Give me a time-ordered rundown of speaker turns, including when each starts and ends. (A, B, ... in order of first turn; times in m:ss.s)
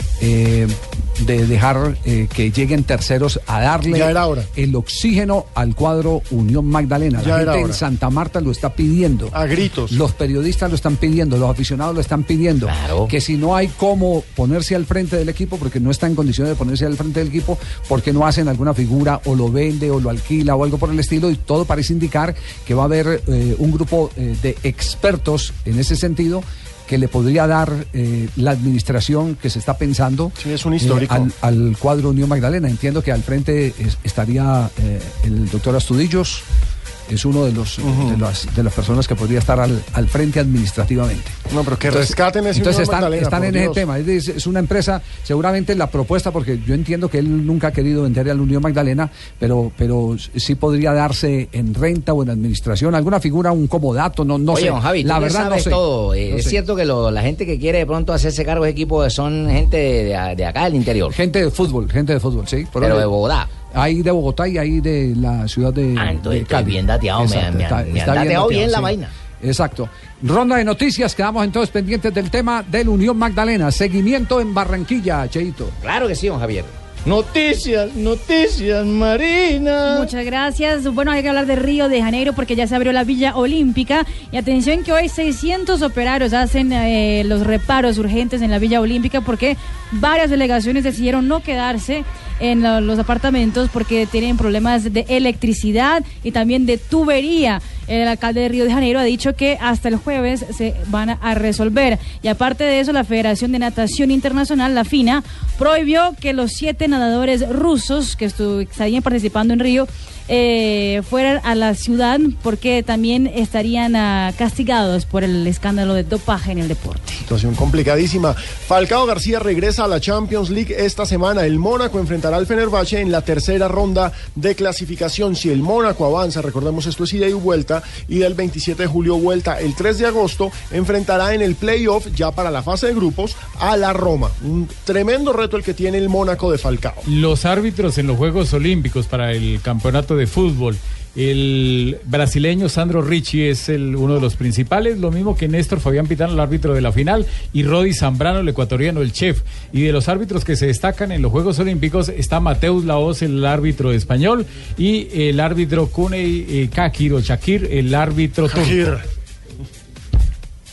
0:00.2-0:09.4 A
0:03.9-0:04.5 B
0:07.2-0:07.8 B
0:09.3-0:10.0 B
0:09.9-0:36.4 A
0:12.7-0:13.1 C
0:30.4-0:31.3 B
0:37.1-0:56.6 A
0:37.8-0:38.2 B
0:41.5-0:43.8 B
0:54.5-1:01.2 C
1:01.1-1:03.1 A
1:02.8-1:03.5 C
1:03.7-1:15.8 A
1:06.0-1:09.1 C
1:15.8-1:16.7 C
1:17.1-1:20.1 D
1:19.9-1:57.2 E
1:57.3-2:17.0 B
2:17.0-2:38.9 F
2:38.5-2:39.0 B